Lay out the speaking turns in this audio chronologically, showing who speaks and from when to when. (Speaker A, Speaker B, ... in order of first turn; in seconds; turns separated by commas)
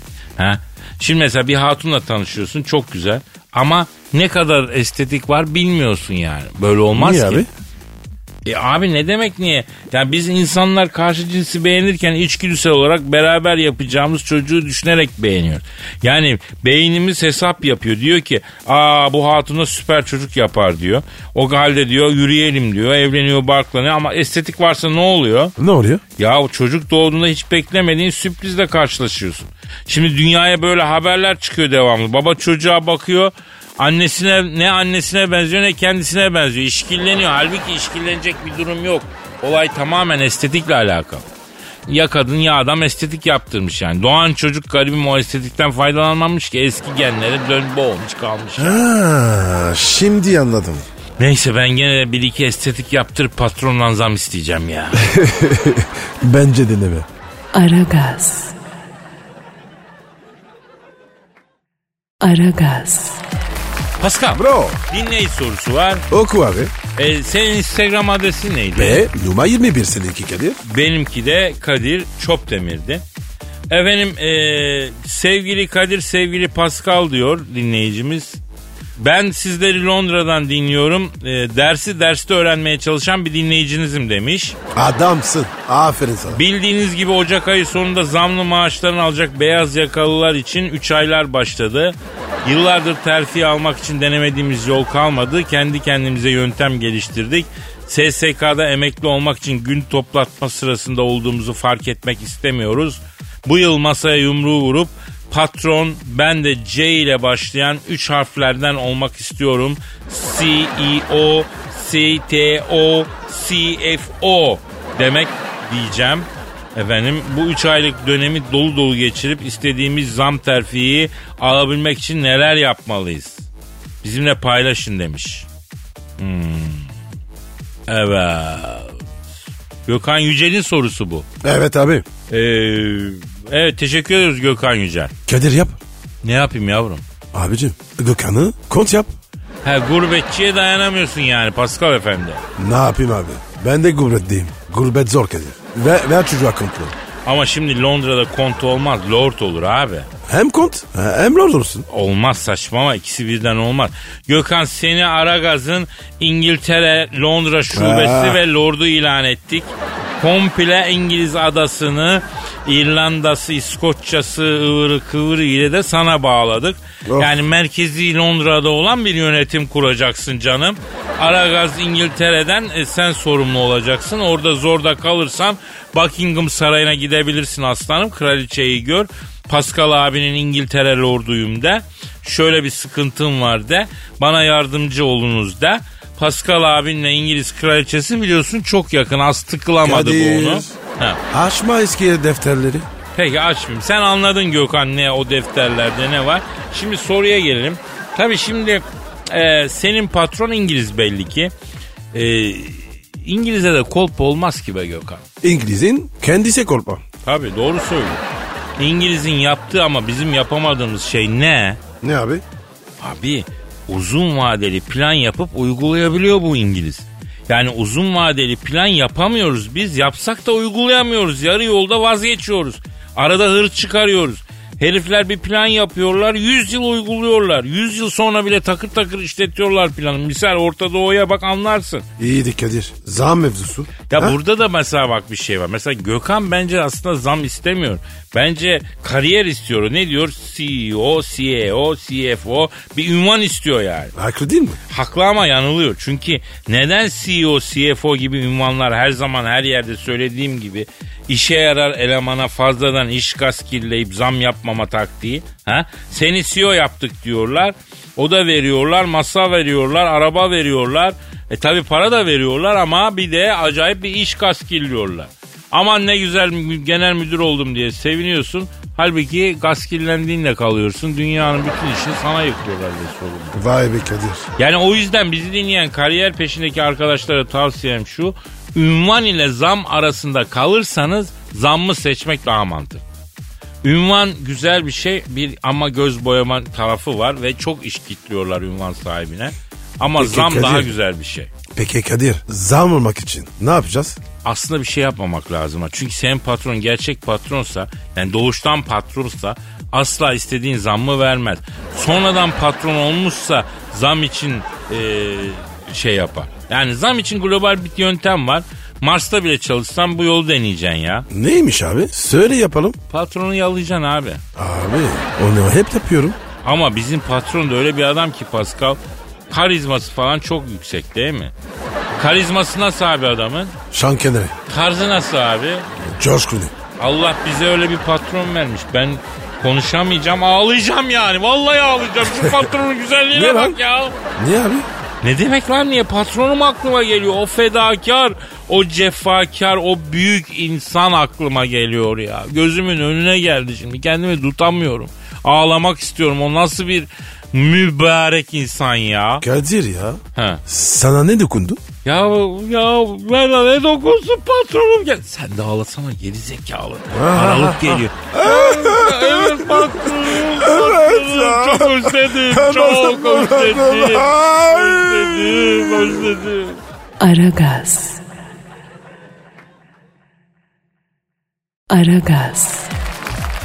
Speaker A: 0.4-7.5, Speaker B: 6.9-7.5, Speaker A: 8.4-25.5, Speaker B: 25.6-26.0, Speaker A: 26.2-41.3, Speaker A: 41.9-48.8, Speaker B: 48.6-50.8, Speaker A: 51.2-55.0, Speaker B: 55.0-57.1, Speaker C: 57.5-58.5, Speaker C: 62.2-63.2, Speaker A: 64.0-66.0, Speaker B: 64.3-64.8, Speaker B: 66.1-66.7, Speaker A: 66.9-69.0, Speaker B: 68.8-70.6, Speaker A: 70.6-73.0, Speaker A: 73.7-78.4, Speaker A: 79.0-84.6, Speaker B: 84.7-86.4, Speaker A: 86.3-123.5, Speaker A: 124.0-125.5, Speaker A: 126.2-126.9, Speaker A: 127.9-128.9, Speaker A: 129.8-131.2, Speaker B: 131.4-132.1, Speaker A: 132.3-135.1, Speaker B: 135.3-135.8, Speaker A: 136.2-137.0, Speaker B: 137.3-139.1, Speaker A: 139.6-142.4, Speaker B: 142.6-146.9, Speaker A: 147.2-150.1, Speaker B: 150.2-151.8, Speaker A: 151.9-191.2, Speaker B: 157.7-158.4, Speaker B: 167.0-167.4, Speaker B: 189.8-190.7, Speaker B: 191.3-192.9, Speaker A: 193.1-201.5, Speaker A: 202.1-205.2, Speaker B: 205.4-207.0, Speaker A: 207.2-208.2, Speaker A: 208.8-211.8, Speaker B: 212.0-212.4, Speaker A: 213.0-232.1, Speaker B: 232.2-234.4, Speaker A: 234.1-244.1, Speaker B: 244.1-244.8, Speaker A: 244.9-273.6, Speaker B: 273.5-274.5, Speaker A: 274.6-283.0, Speaker A: 283.8-291.5, Speaker B: 290.2-290.9, Speaker B: 291.7-294.2, Speaker A: 294.4-311.3, Speaker B: 311.3-313.0, Speaker A: 313.1-314.4, Speaker B: 314.6-316.4, Speaker A: 316.6-319.0, Speaker A: 319.5-321.5, Speaker A: 322.2-323.7, Speaker B: 323.9-324.5, Speaker A: 324.7-325.9, Speaker B: 326.1-326.7, Speaker A: 327.0-334.1, Speaker B: 333.3-333.8, Speaker B: 334.4-334.9, Speaker A: 335.2-349.4, Speaker B: 349.4-351.8, Speaker A: 350.3-350.6, Speaker A: 352.0-366.8, Speaker B: 357.1-366.2, Speaker C: 367.2-368.2, Speaker C: 371.9-372.9